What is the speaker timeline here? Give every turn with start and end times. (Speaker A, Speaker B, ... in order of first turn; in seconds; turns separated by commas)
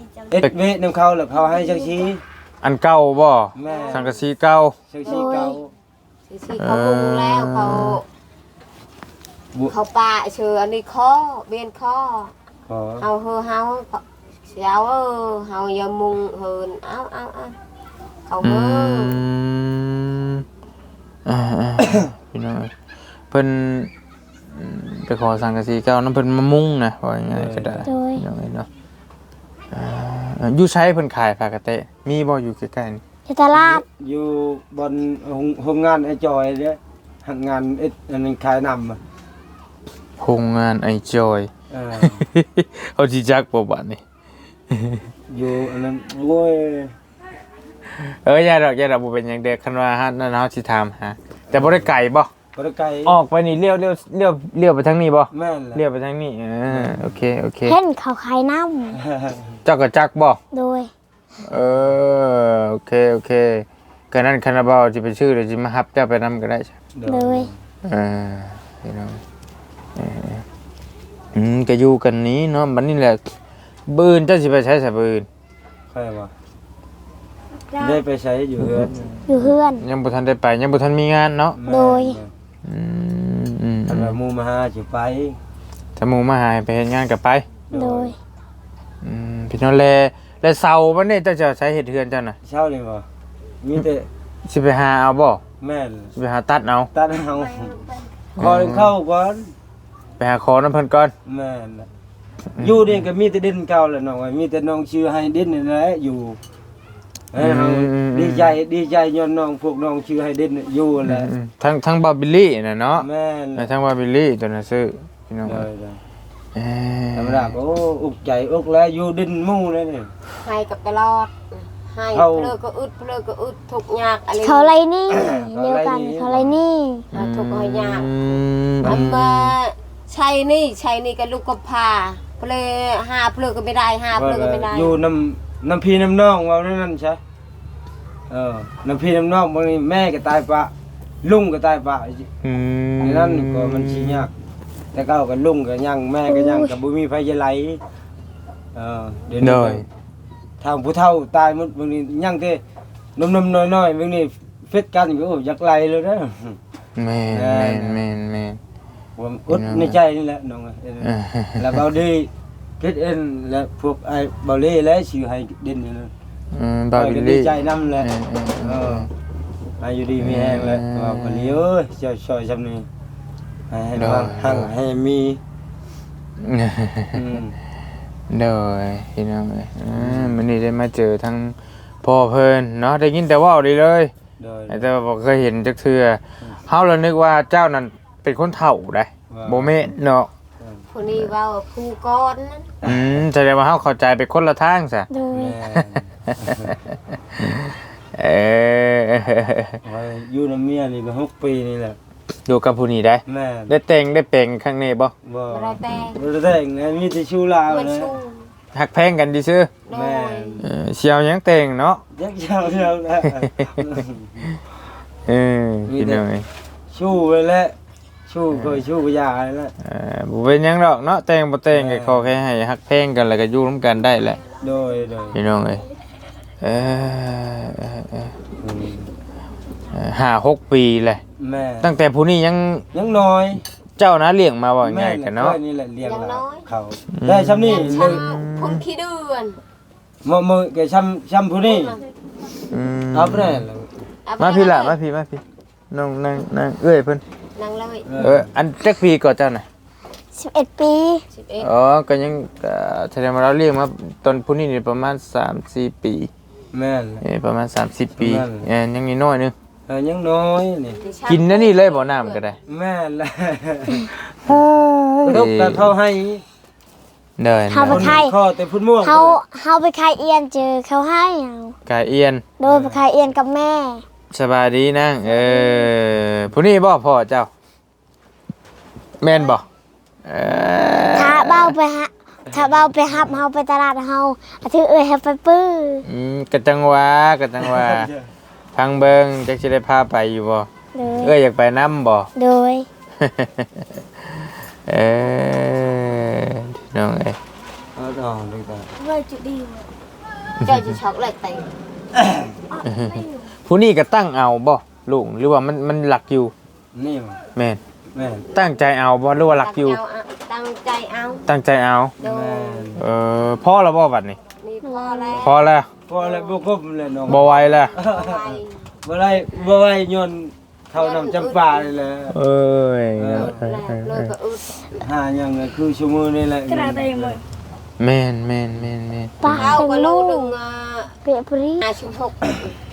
Speaker A: 0.3-2.2, Speaker B: 2.6-4.8, Speaker A: 3.5-4.1, Speaker C: 3.7-4.0, Speaker A: 4.9-5.7, Speaker D: 5.0-5.6, Speaker C: 5.0-5.4, Speaker C: 6.3-8.0, Speaker B: 6.6-8.0, Speaker C: 9.7-12.3, Speaker A: 12.7-13.1, Speaker C: 13.0-17.6, Speaker C: 18.3-19.1, Speaker B: 18.4-20.4, Speaker B: 21.2-22.7, Speaker B: 23.3-23.9, Speaker B: 24.5-28.7, Speaker A: 27.3-27.9, Speaker D: 27.8-28.2, Speaker B: 29.7-33.0, Speaker D: 33.3-33.8, Speaker A: 33.5-39.0, Speaker B: 40.2-44.0, Speaker A: 41.7-42.2, Speaker B: 44.7-45.0, Speaker A: 45.3-46.9, Speaker B: 47.9-52.3, Speaker A: 51.5-51.9, Speaker A: 52.5-53.2, Speaker B: 53.0-57.8, Speaker A: 55.3-55.8, Speaker A: 56.7-57.2, Speaker D: 57.6-59.0, Speaker A: 58.9-59.6, Speaker B: 59.6-60.4, Speaker D: 60.5-60.9, Speaker B: 61.4-66.8, Speaker A: 66.9-67.6, Speaker D: 67.0-67.5, Speaker B: 67.8-69.2, Speaker B: 70.0-70.4, Speaker B: 71.3-73.3, Speaker B: 73.9-75.2, Speaker A: 75.9-76.3, Speaker A: 77.8-79.2, Speaker B: 78.6-78.9, Speaker D: 79.3-79.8, Speaker B: 79.8-81.6, Speaker A: 81.5-82.3, Speaker D: 81.7-82.2, Speaker B: 82.6-84.2, Speaker A: 83.9-85.4, Speaker B: 86.0-87.5, Speaker A: 87.7-88.1, Speaker D: 87.7-88.2, Speaker B: 89.0-92.3, Speaker A: 92.4-93.0, Speaker A: 93.6-94.1, Speaker B: 94.4-95.4, Speaker A: 95.6-96.1, Speaker B: 96.1-96.9, Speaker A: 96.9-99.5, Speaker B: 98.3-98.9, Speaker B: 100.2-101.1, Speaker A: 101.2-101.9, Speaker B: 102.5-103.0, Speaker A: 102.6-106.4, Speaker A: 107.3-111.3, Speaker B: 107.4-108.6, Speaker B: 111.0-115.7, Speaker A: 113.0-113.7, Speaker A: 115.4-116.0, Speaker B: 116.5-117.5, Speaker A: 117.1-120.1, Speaker C: 120.4-124.7, Speaker A: 122.1-122.5, Speaker D: 124.4-127.1, Speaker A: 125.1-126.6, Speaker C: 127.1-128.1, Speaker B: 127.1-129.5, Speaker C: 128.8-135.0, Speaker A: 134.1-137.2, Speaker A: 138.3-140.7, Speaker A: 141.2-142.3, Speaker B: 142.4-144.3, Speaker A: 143.0-144.3, Speaker A: 144.9-147.8, Speaker D: 146.3-146.7, Speaker A: 148.7-149.8, Speaker B: 149.4-149.8, Speaker A: 150.6-152.6, Speaker A: 153.2-156.6, Speaker B: 156.9-158.6, Speaker A: 157.3-158.0, Speaker A: 159.2-166.1, Speaker B: 159.5-160.0, Speaker B: 161.0-161.8, Speaker B: 166.5-169.1, Speaker A: 166.9-168.1, Speaker A: 168.6-169.1, Speaker A: 169.8-172.9, Speaker B: 170.2-171.6, Speaker A: 173.7-175.4, Speaker B: 173.9-174.7, Speaker B: 176.4-177.2, Speaker A: 177.1-177.5, Speaker B: 178.3-184.1, Speaker A: 179.9-180.4, Speaker A: 184.4-184.9, Speaker B: 184.7-190.3, Speaker A: 189.3-189.7, Speaker C: 190.9-192.7, Speaker A: 192.8-193.2, Speaker B: 192.8-195.1, Speaker D: 195.1-195.6, Speaker A: 195.3-196.8, Speaker B: 195.7-196.8, Speaker B: 197.3-199.8, Speaker A: 199.8-202.0, Speaker B: 202.5-205.1, Speaker A: 203.2-203.7, Speaker A: 205.2-208.2, Speaker C: 205.5-206.2, Speaker C: 207.7-208.5, Speaker B: 208.7-209.7, Speaker C: 209.8-210.6, Speaker A: 209.9-210.6, Speaker B: 210.6-212.0, Speaker A: 212.1-214.5, Speaker B: 213.3-214.6, Speaker B: 215.3-216.4, Speaker A: 215.9-216.2, Speaker A: 216.9-217.8, Speaker A: 218.3-219.7, Speaker B: 218.5-218.8, Speaker B: 219.8-224.4, Speaker A: 221.7-222.3, Speaker A: 224.5-225.4, Speaker B: 225.3-225.8, Speaker B: 226.6-228.3, Speaker A: 228.6-229.1, Speaker B: 229.9-231.2, Speaker A: 231.4-231.9, Speaker B: 231.8-232.9, Speaker A: 232.9-233.6, Speaker B: 234.0-235.6, Speaker A: 234.8-238.2, Speaker C: 236.0-236.7, Speaker B: 237.1-238.8, Speaker C: 237.7-239.6, Speaker A: 240.2-242.0, Speaker C: 241.6-242.0, Speaker B: 242.7-243.6, Speaker A: 243.1-244.0, Speaker C: 244.2-245.0, Speaker B: 244.4-247.2, Speaker C: 247.6-248.1, Speaker A: 248.1-248.5, Speaker B: 248.2-249.6, Speaker D: 250.3-251.2, Speaker C: 251.3-251.7, Speaker B: 251.6-256.3, Speaker A: 256.7-257.2, Speaker B: 257.2-259.5, Speaker A: 258.1-258.7, Speaker A: 259.9-261.0, Speaker C: 261.0-262.4, Speaker B: 261.2-262.6, Speaker A: 262.7-264.6, Speaker B: 264.5-265.9, Speaker A: 265.2-266.4, Speaker B: 267.4-268.2, Speaker D: 267.7-268.4, Speaker A: 267.8-269.4, Speaker D: 269.0-271.8, Speaker B: 271.9-272.5, Speaker D: 272.6-274.0, Speaker A: 272.6-273.0, Speaker B: 274.3-277.5, Speaker B: 279.2-279.6, Speaker B: 280.2-281.8, Speaker D: 281.1-286.0, Speaker A: 282.5-283.3, Speaker B: 286.0-288.1, Speaker A: 287.6-288.3, Speaker B: 288.7-292.3, Speaker D: 290.9-291.4, Speaker D: 292.4-292.9, Speaker B: 293.2-297.4, Speaker A: 297.9-298.9, Speaker D: 299.0-299.8, Speaker C: 300.6-301.8, Speaker A: 302.1-302.6, Speaker D: 302.7-303.4, Speaker B: 302.8-306.5, Speaker A: 306.9-307.4, Speaker B: 307.5-307.8, Speaker A: 308.1-308.4, Speaker B: 308.5-310.0, Speaker C: 309.4-311.5, Speaker B: 311.4-312.1, Speaker C: 312.2-312.9, Speaker A: 312.2-313.0, Speaker B: 312.9-314.4, Speaker C: 314.6-315.6, Speaker D: 314.8-315.5, Speaker B: 315.4-315.9, Speaker A: 316.1-322.4, Speaker C: 316.2-316.7, Speaker C: 317.2-318.9, Speaker B: 317.3-317.9, Speaker C: 320.9-321.9, Speaker B: 322.3-324.3, Speaker A: 323.2-323.6, Speaker C: 323.3-325.1, Speaker A: 325.0-327.4, Speaker D: 326.8-327.3, Speaker B: 328.0-329.8, Speaker D: 329.4-330.5, Speaker C: 329.5-331.2, Speaker D: 331.2-331.9, Speaker C: 331.8-332.8